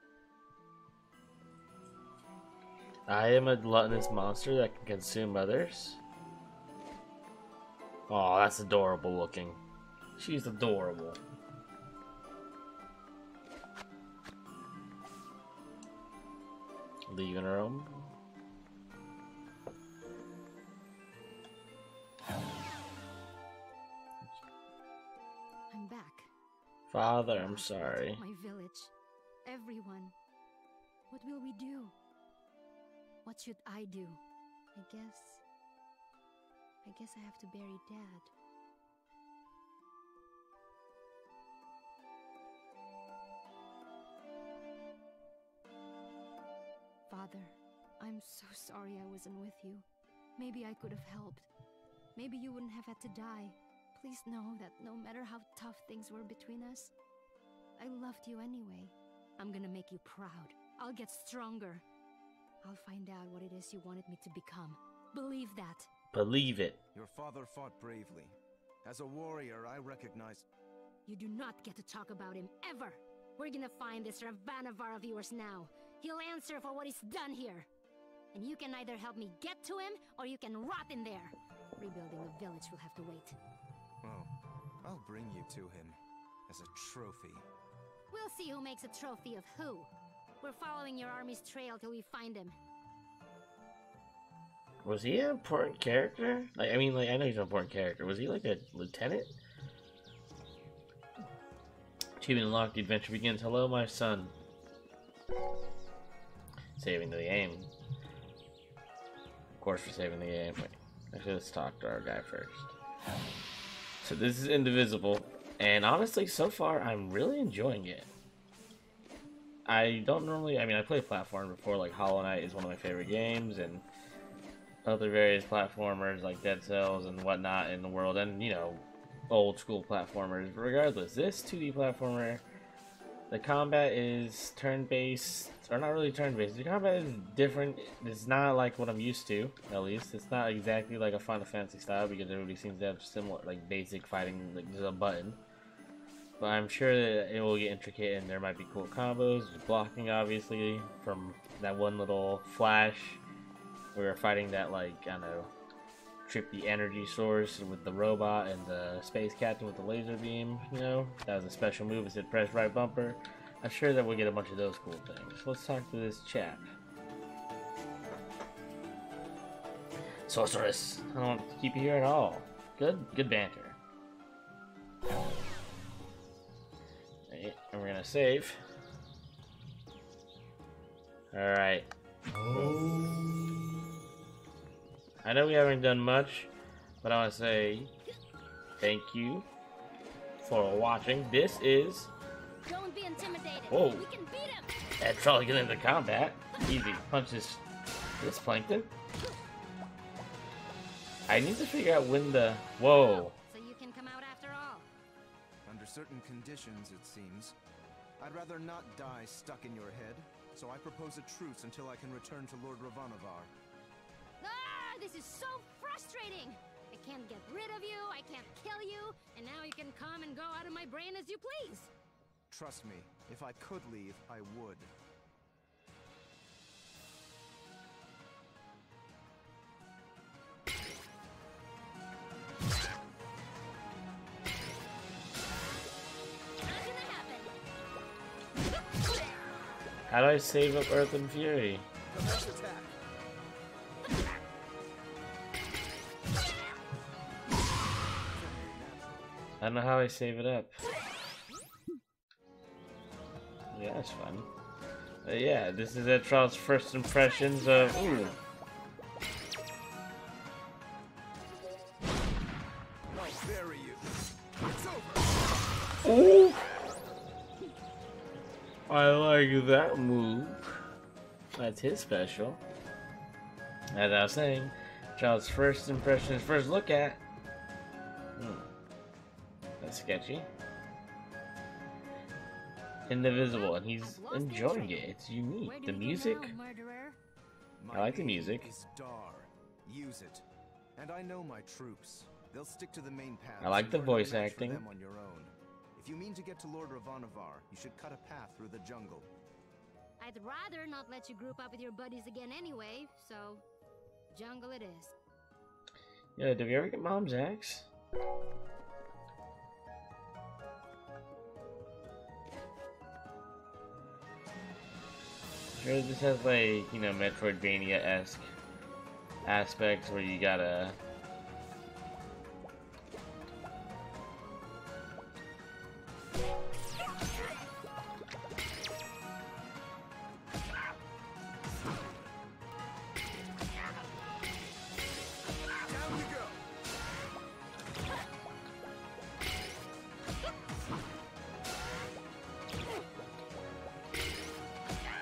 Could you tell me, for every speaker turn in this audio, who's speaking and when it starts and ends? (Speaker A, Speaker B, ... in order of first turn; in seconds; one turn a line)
Speaker A: 3.1-6.0
Speaker A: 8.1-9.6
Speaker A: 10.2-11.2
Speaker A: 17.1-18.1
Speaker B: 25.7-26.3
Speaker A: 26.9-28.2
Speaker B: 27.4-28.9
Speaker B: 29.4-30.1
Speaker B: 31.1-31.9
Speaker B: 33.2-34.2
Speaker B: 34.7-35.4
Speaker B: 36.8-38.3
Speaker B: 47.1-49.9
Speaker B: 50.4-51.5
Speaker B: 52.1-56.9
Speaker B: 57.8-61.8
Speaker B: 62.6-65.9
Speaker A: 66.1-66.8
Speaker C: 66.9-70.5
Speaker B: 71.0-77.7
Speaker B: 78.3-83.3
Speaker C: 84.0-84.3
Speaker C: 84.8-87.5
Speaker B: 88.1-89.9
Speaker B: 90.4-92.6
Speaker A: 94.8-99.3
Speaker A: 102.2-104.3
Speaker A: 106.8-107.7
Speaker A: 109.5-112.7
Speaker A: 114.0-118.1
Speaker A: 119.7-123.8
Speaker A: 124.8-132.4
Speaker A: 133.3-145.4
Speaker A: 146.4-153.2
Speaker A: 153.9-155.5
Speaker A: 156.2-166.6
Speaker A: 170.3-173.8
Speaker A: 177.3-178.6
Speaker A: 181.3-181.9
Speaker A: 182.5-183.0
Speaker A: 185.2-186.5
Speaker A: 187.0-187.9
Speaker A: 188.8-189.5
Speaker A: 190.4-192.1
Speaker B: 192.7-194.7
Speaker A: 193.7-194.1
Speaker A: 195.0-197.6
Speaker A: 198.2-198.9
Speaker A: 201.3-203.3
Speaker B: 202.9-204.9
Speaker C: 205.7-207.6
Speaker C: 208.2-213.5
Speaker B: 214.4-221.9
Speaker C: 222.5-224.9
Speaker B: 236.6-237.5
Speaker A: 240.1-241.8
Speaker C: 242.1-242.9
Speaker C: 248.3-249.3
Speaker A: 249.6-250.8
Speaker A: 253.7-254.5
Speaker A: 255.2-258.4
Speaker C: 263.1-265.5
Speaker A: 266.0-266.7
Speaker A: 268.9-270.8
Speaker A: 271.5-272.6
Speaker A: 273.9-277.2
Speaker A: 278.4-278.6
Speaker A: 279.8-280.5
Speaker A: 283.1-286.5
Speaker B: 283.3-287.2
Speaker C: 287.8-290.4
Speaker A: 287.9-288.7
Speaker C: 290.9-299.3
Speaker A: 293.6-294.9
Speaker B: 300.2-303.6
Speaker B: 304.3-305.1
Speaker A: 306.4-307.9
Speaker A: 315.8-318.5
Speaker A: 319.4-321.0
Speaker C: 335.8-336.6